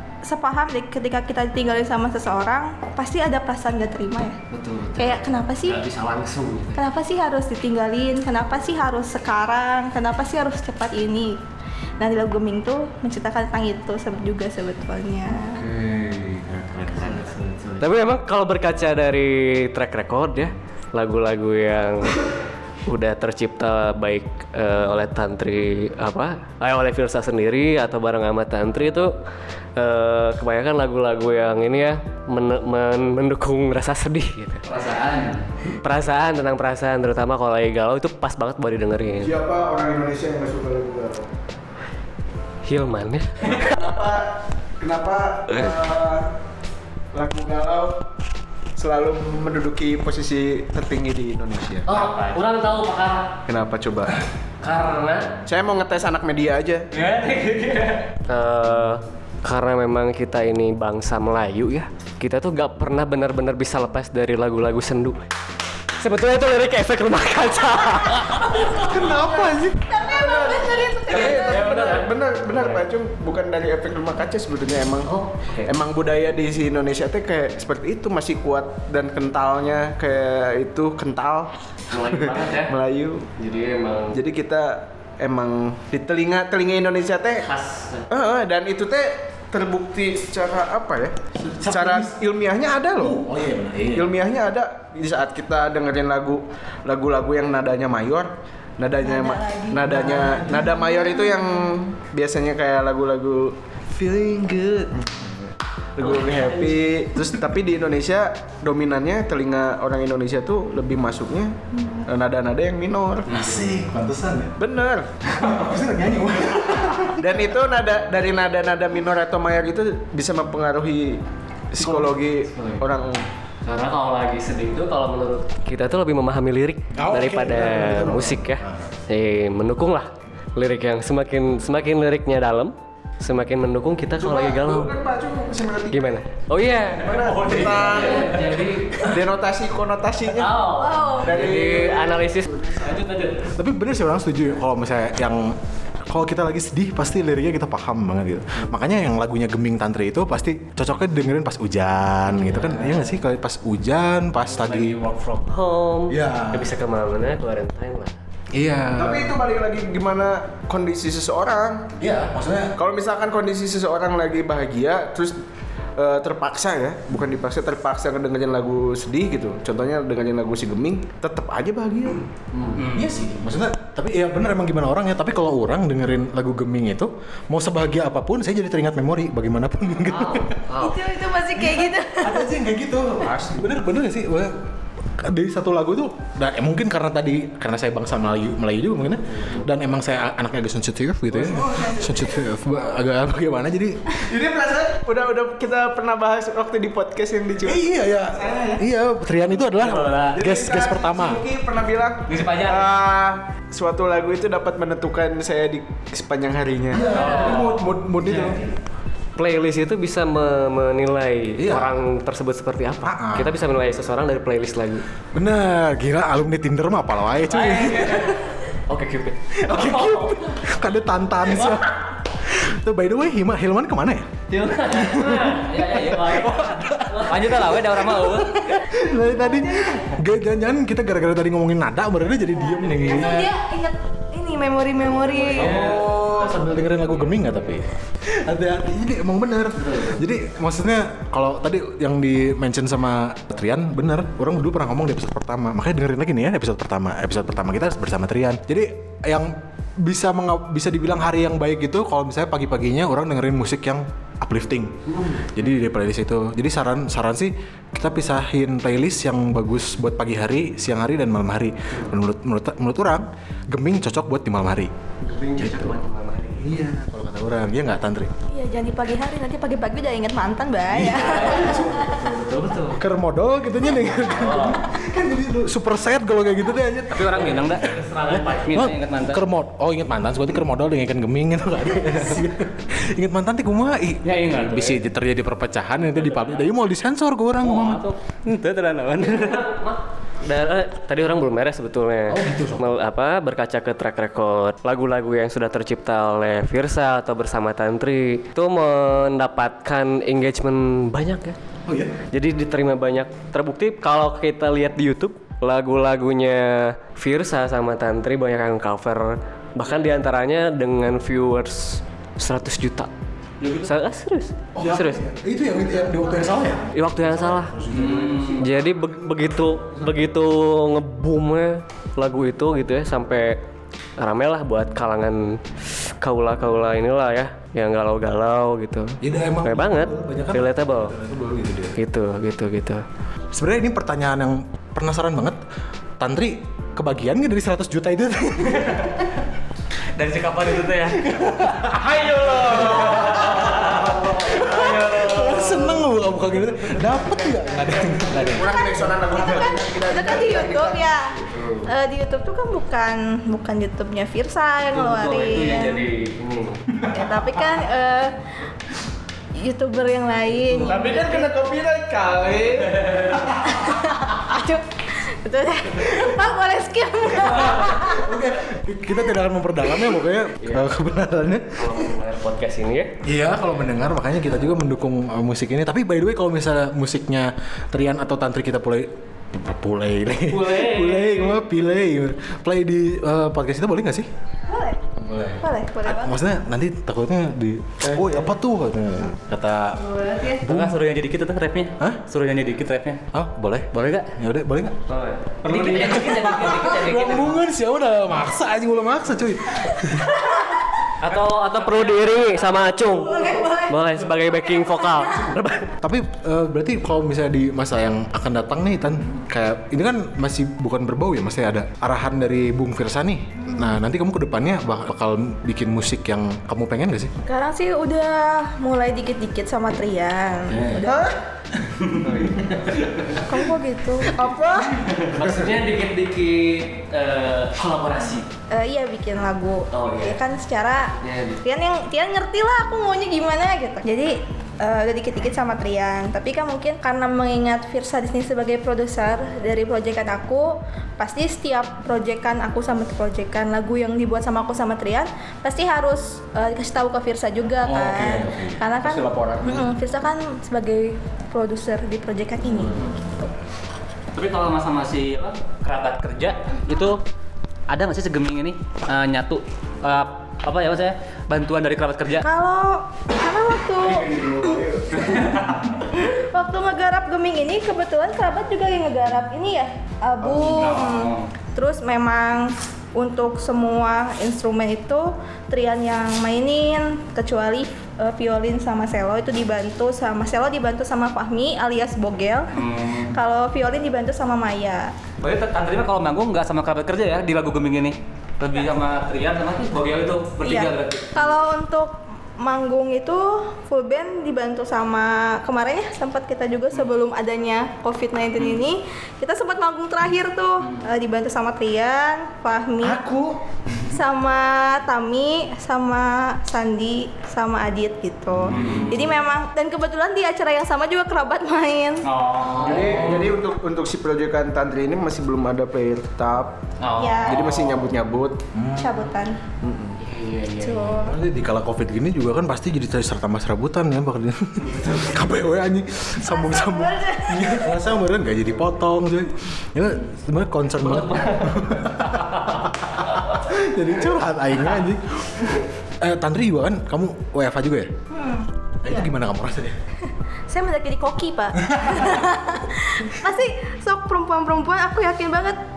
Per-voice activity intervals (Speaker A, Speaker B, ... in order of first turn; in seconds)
Speaker A: 0.2-4.4, 5.0-5.8, 6.8-11.4, 12.0-15.6, 68.6-71.8, 99.0-101.7, 140.7-141.3, 180.8-182.5, 229.4-230.1, 232.7-235.9, 268.5-272.1, 316.2-316.8, 348.6-351.3, 351.9-356.1, 357.1-358.4, 359.6-361.5, 363.6-368.3, 384.7-385.0, 385.6-386.4, 390.1-390.6, 403.2-405.5, 417.5-421.2, 423.4-424.4, 428.7-453.5, 462.4-464.4, 466.1-482.8, 483.3-485.1, 490.6-503.2, 504.1-512.2, 517.2-517.7, 519.0-519.6, 520.8-521.4, 526.4-528.0, 538.3-538.7, 540.7-545.8
Speaker B: 4.5-6.8, 16.9-22.3, 22.9-29.1, 29.8-34.6, 35.8-39.3, 42.6-43.7, 51.9-53.3, 54.6-55.3, 58.3-65.2, 66.0-68.6, 71.2-72.8, 75.1-75.7, 81.9-82.8, 83.4-84.2, 87.5-88.1, 106.0-106.8, 123.6-134.9, 135.9-139.1, 140.4-143.5, 152.5-153.1, 155.4-158.1, 172.5-172.8, 180.1-181.0, 207.1-207.6, 209.4-215.1, 218.0-220.5, 224.5-227.3, 265.2-266.6, 271.5-272.9, 274.4-274.8, 277.8-278.9, 289.2-301.6, 302.3-313.1, 313.8-315.2, 316.9-317.8, 318.5-323.6, 324.2-331.1, 332.0-333.0, 354.9-356.8, 371.8-373.1, 380.5-381.4, 395.1-397.5, 401.2-405.9, 425.3-428.4, 429.9-430.4, 431.2-431.6, 520.2-520.7
Speaker C: 15.5-17.2, 68.3-69.9, 91.4-92.2, 92.9-94.1, 99.9-100.6, 113.3-114.5, 115.3-117.3, 121.8-122.2, 126.9-128.9, 143.6-155.0, 156.1-156.7, 158.5-159.4, 162.0-162.7, 172.9-180.6, 181.6-184.6, 185.1-194.0, 197.6-201.4, 206.9-208.6, 211.6-211.9, 213.1-213.5, 215.3-218.3, 219.6-233.5, 235.6-264.9, 265.6-265.9, 266.6-268.3, 270.9-272.2, 272.9-288.0, 292.3-292.9, 301.9-302.2, 314.8-319.3, 329.2-332.0, 333.5-335.6, 336.2-339.1, 341.2-341.9, 342.6-348.7, 367.6-372.1, 373.2-384.3, 385.2-391.0, 393.3-394.9, 396.0-400.4, 406.0-417.3, 420.7-421.1, 421.8-422.1, 425.4-425.7, 447.9-448.8, 508.6-509.0, 518.7-519.2, 521.1-538.1, 539.0-540.0, 541.9-542.4
Speaker D: 34.6-35.5, 51.9-52.4, 56.9-58.1, 137.2-138.8, 154.6-155.3, 172.8-173.2, 199.7-200.4, 202.3-202.8, 207.1-208.6, 217.6-218.3, 225.6-228.6, 235.2-236.6, 272.3-272.8, 277.1-279.4, 284.2-285.0, 286.2-286.6, 287.6-289.8, 313.6-313.9, 317.9-318.7, 340.1-347.0, 355.1-355.8, 380.8-381.2, 388.1-388.4, 390.5-393.2, 393.9-394.3, 395.6-397.6, 401.3-402.6, 425.1-425.6, 454.4-457.2, 457.9-462.4, 464.3-464.6, 465.2-465.8, 470.4-471.5, 482.8-483.3, 485.4-491.3, 498.6-498.8, 508.7-509.2, 512.2-513.5, 517.0-518.1, 531.1-531.8
Speaker E: 39.2-41.3, 43.4-46.3, 47.1-48.0, 48.8-51.9, 53.5-54.2, 55.5-56.9, 70.0-75.1, 75.6-83.3, 84.1-87.5, 88.1-91.1, 91.7-93.2, 93.9-113.5, 114.6-115.1, 117.2-123.2, 134.1-136.2, 136.9-140.6, 141.2-142.4, 158.9-161.9, 162.8-165.4, 166.0-172.3, 183.2-183.7, 191.3-192.4, 194.2-198.8, 200.3-207.2, 342.4-343.4, 348.2-351.6, 360.7-363.4, 421.0-421.4, 422.2-422.6, 424.2-425.1, 448.9-449.9, 464.2-465.5, 503.0-503.6, 508.7-509.0, 512.8-516.8, 517.4-518.6, 519.8-520.2